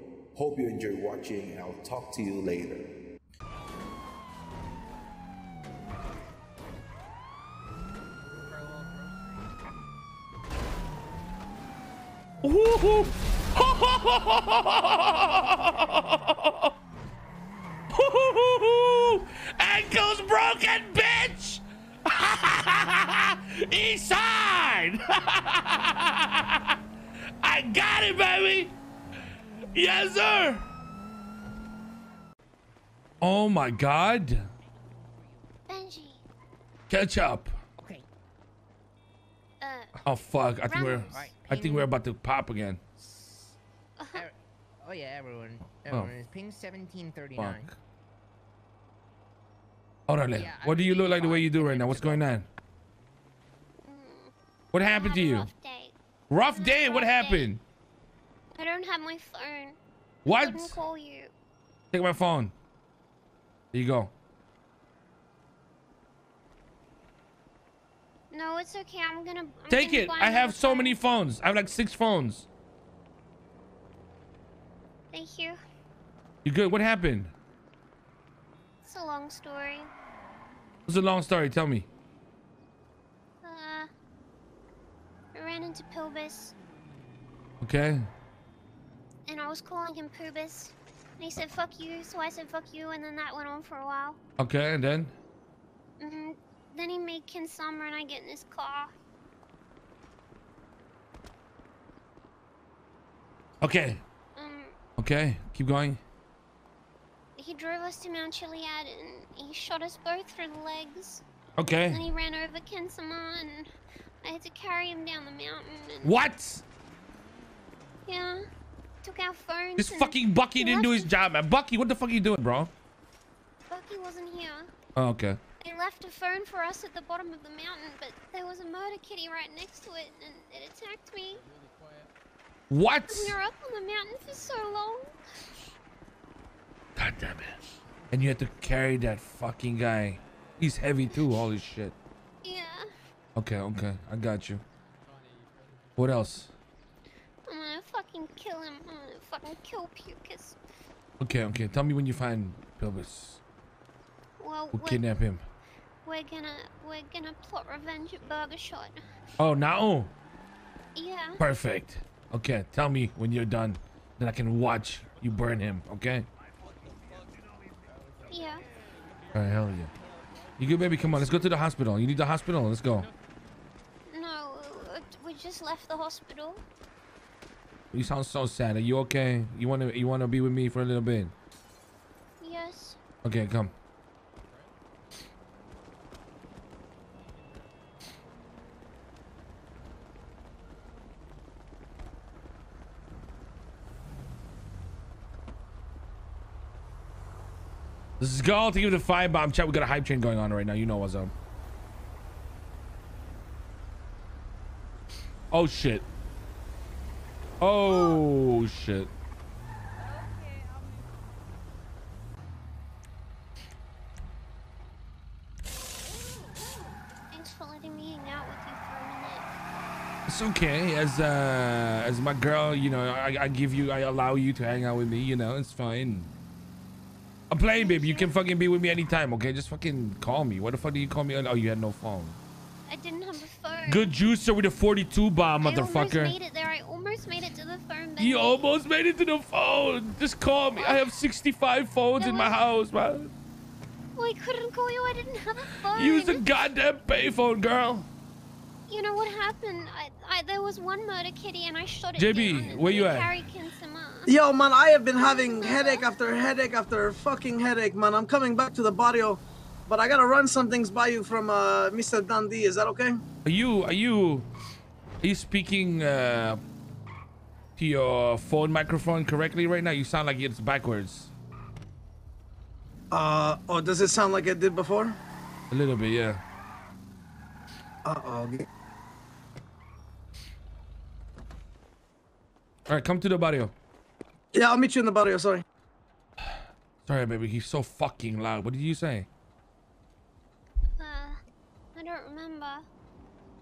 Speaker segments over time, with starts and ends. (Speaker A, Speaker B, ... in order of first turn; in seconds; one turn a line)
Speaker A: 0.3-2.9
Speaker B: 12.4-16.7
Speaker B: 17.9-26.8
Speaker B: 27.4-28.8
Speaker B: 29.7-30.7
Speaker B: 33.2-34.5
Speaker C: 35.0-35.5
Speaker D: 35.7-36.2
Speaker B: 36.9-37.6
Speaker C: 37.8-38.1
Speaker D: 39.6-40.0
Speaker B: 40.0-42.8
Speaker D: 40.7-41.3
Speaker C: 41.0-41.9
Speaker C: 43.0-43.6
Speaker D: 44.0-44.3
Speaker C: 44.1-47.7
Speaker B: 45.9-46.1
Speaker B: 47.4-47.8
Speaker B: 50.1-52.5
Speaker C: 50.3-52.3
Speaker D: 53.9-54.3
Speaker B: 54.7-55.5
Speaker D: 54.9-56.0
Speaker B: 56.3-57.6
Speaker D: 56.5-57.5
Speaker D: 58.5-61.3
Speaker B: 60.2-60.8
Speaker B: 61.9-62.5
Speaker B: 63.7-64.1
Speaker D: 68.3-71.0
Speaker B: 69.7-72.5
Speaker D: 75.1-75.6
Speaker B: 76.5-77.3
Speaker D: 78.8-79.9
Speaker B: 80.9-81.9
Speaker D: 83.4-83.9
Speaker D: 85.3-86.5
Speaker B: 87.6-88.1
Speaker D: 89.3-94.2
Speaker B: 94.4-95.2
Speaker D: 96.0-98.9
Speaker B: 103.6-104.0
Speaker D: 104.3-104.8
Speaker B: 105.0-106.0
Speaker D: 107.4-111.2
Speaker B: 111.6-112.0
Speaker D: 111.9-113.7
Speaker D: 114.2-116.2
Speaker B: 116.0-116.7
Speaker D: 118.1-118.4
Speaker D: 119.0-121.1
Speaker B: 119.8-122.7
Speaker D: 123.7-124.7
Speaker B: 125.0-125.4
Speaker D: 125.6-131.4
Speaker B: 132.7-133.4
Speaker D: 133.1-135.2
Speaker B: 137.0-137.6
Speaker B: 138.1-142.0
Speaker D: 142.4-142.9
Speaker B: 143.4-144.6
Speaker B: 146.0-146.5
Speaker D: 147.5-150.6
Speaker B: 151.2-153.4
Speaker D: 154.4-155.1
Speaker B: 154.7-155.4
Speaker D: 156.1-159.0
Speaker B: 159.4-160.1
Speaker D: 161.0-161.4
Speaker B: 161.4-166.3
Speaker D: 168.3-168.7
Speaker B: 169.3-169.9
Speaker B: 170.6-173.1
Speaker D: 174.1-176.6
Speaker B: 177.9-181.3
Speaker D: 182.4-183.0
Speaker B: 183.2-183.7
Speaker B: 198.2-201.3
Speaker B: 205.5-206.1
Speaker B: 207.6-209.1
Speaker D: 217.3-219.5
Speaker B: 220.3-226.3
Speaker B: 227.5-232.4
Speaker D: 227.8-228.3
Speaker D: 232.9-234.1
Speaker B: 233.9-236.4
Speaker D: 235.6-238.7
Speaker B: 238.2-243.3
Speaker D: 240.8-241.1
Speaker D: 242.2-242.6
Speaker D: 244.2-246.5
Speaker B: 245.9-248.1
Speaker D: 248.9-254.3
Speaker B: 252.2-253.4
Speaker E: 254.3-263.2
Speaker D: 255.1-256.1
Speaker B: 263.4-264.5
Speaker B: 265.2-266.6
Speaker B: 267.8-271.3
Speaker E: 273.1-275.2
Speaker B: 275.7-276.4
Speaker E: 278.1-278.7
Speaker B: 282.9-283.7
Speaker E: 284.5-285.6
Speaker B: 286.4-289.3
Speaker D: 291.0-291.4
Speaker D: 292.0-292.9